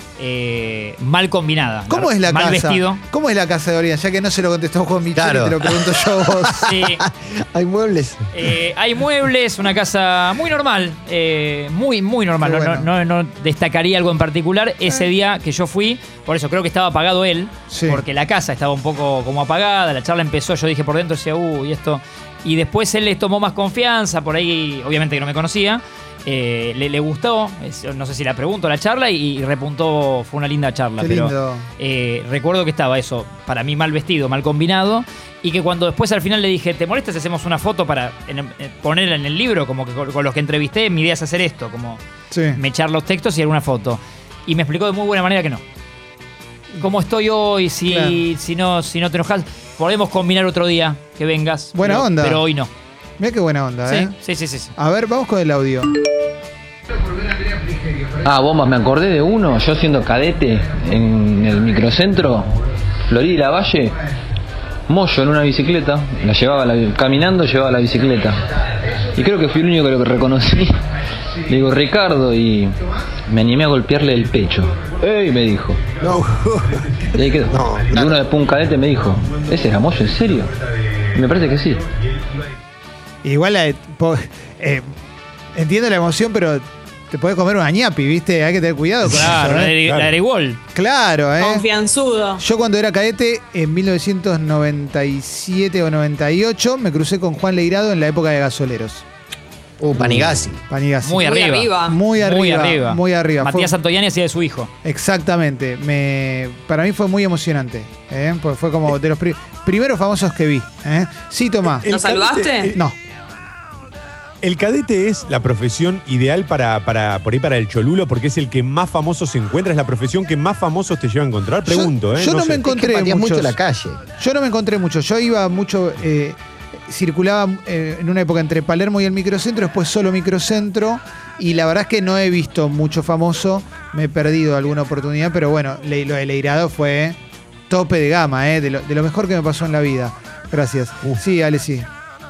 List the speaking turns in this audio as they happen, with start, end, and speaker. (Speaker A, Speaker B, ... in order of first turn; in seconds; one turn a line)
Speaker A: 0.2-3.0
Speaker B: 1.9-6.7
Speaker C: 5.2-8.5
Speaker A: 6.6-7.0
Speaker A: 8.3-42.0
Speaker B: 12.4-12.9
Speaker B: 17.7-18.0
Speaker B: 31.0-31.6
Speaker B: 42.3-42.6
Speaker A: 42.5-45.6
Speaker A: 46.8-52.7
Speaker B: 47.9-48.2
Speaker B: 51.7-52.4
Speaker B: 53.2-54.1
Speaker A: 53.9-54.7
Speaker B: 54.8-55.9
Speaker D: 58.2-64.0
Speaker D: 64.9-68.5
Speaker D: 69.0-70.8
Speaker D: 71.5-75.9
Speaker C: 76.0-76.8
Speaker D: 77.1-80.5
Speaker C: 77.5-78.1
Speaker D: 81.1-81.8
Speaker B: 83.2-84.9
Speaker B: 85.5-89.7
Speaker A: 89.0-90.6
Speaker E: 89.8-90.1
Speaker B: 90.7-91.7
Speaker F: 91.4-92.4
Speaker B: 92.4-99.0
Speaker C: 99.8-100.6
Speaker B: 100.7-101.2
Speaker A: 101.0-104.7
Speaker F: 101.2-102.0
Speaker B: 101.9-103.7
Speaker B: 104.8-111.9
Speaker E: 111.8-112.8
Speaker F: 111.8-112.7
Speaker E: 114.4-122.6
Speaker B: 121.7-123.6
Speaker C: 122.6-124.0
Speaker B: 124.2-137.2
Speaker B: 137.7-141.9